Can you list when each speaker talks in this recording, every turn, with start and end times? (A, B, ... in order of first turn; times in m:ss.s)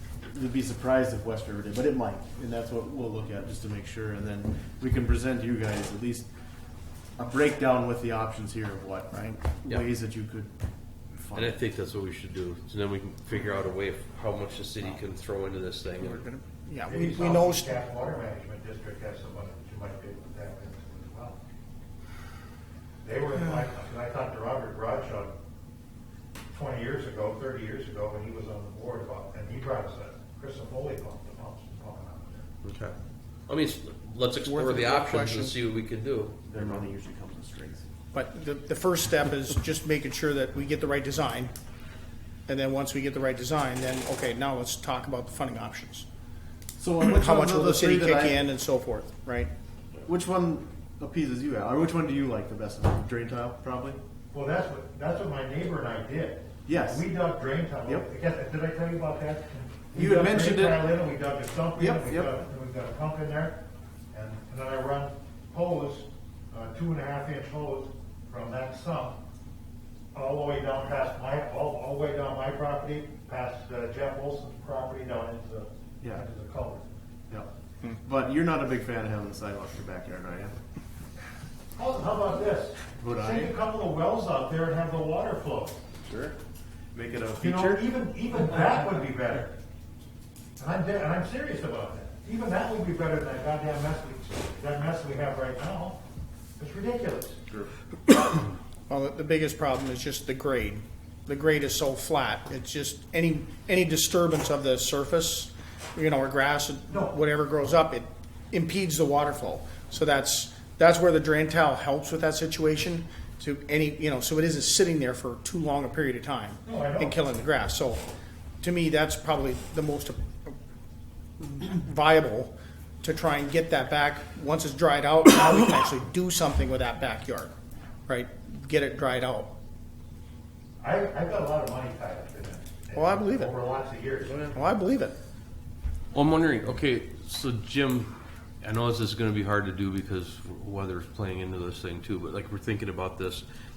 0:00.3-0:06.3 A
0:07.2-0:10.5 A
0:09.1-0:09.4 B
0:11.2-0:11.6 A
0:11.4-0:16.3 C
0:16.0-0:17.8 B
0:16.9-0:21.4 D
0:23.0-0:25.3 D
0:26.5-0:32.5 D
0:32.6-0:33.0 C
0:33.5-0:36.9 C
0:34.4-0:35.6 B
0:36.5-0:37.9 A
0:38.1-0:41.5 B
0:42.5-0:46.1 B
0:46.8-0:48.5 A
0:47.0-0:49.5 B
0:50.0-0:54.0 A
0:54.3-1:03.6 D
0:56.7-0:57.1 A
0:59.9-1:01.0 A
1:01.8-1:02.3 A
1:04.1-1:09.2 D
1:10.1-1:16.9 D
1:18.0-1:20.6 A
1:21.8-1:25.8 D
1:23.0-1:23.5 A
1:26.0-1:26.3 A
1:26.9-1:27.9 A
1:27.4-1:29.6 D
1:30.6-1:36.0 D
1:36.6-1:37.4 D
1:38.9-1:58.0 B
1:46.9-1:47.2 D
1:56.6-1:57.2 D
1:58.6-2:00.5 B
2:01.4-2:07.5 B
2:08.1-2:09.5 B
2:10.8-2:14.5 D
2:13.0-2:13.5 B
2:14.3-2:14.6 C
2:14.5-2:15.2 B
2:16.1-2:23.4 C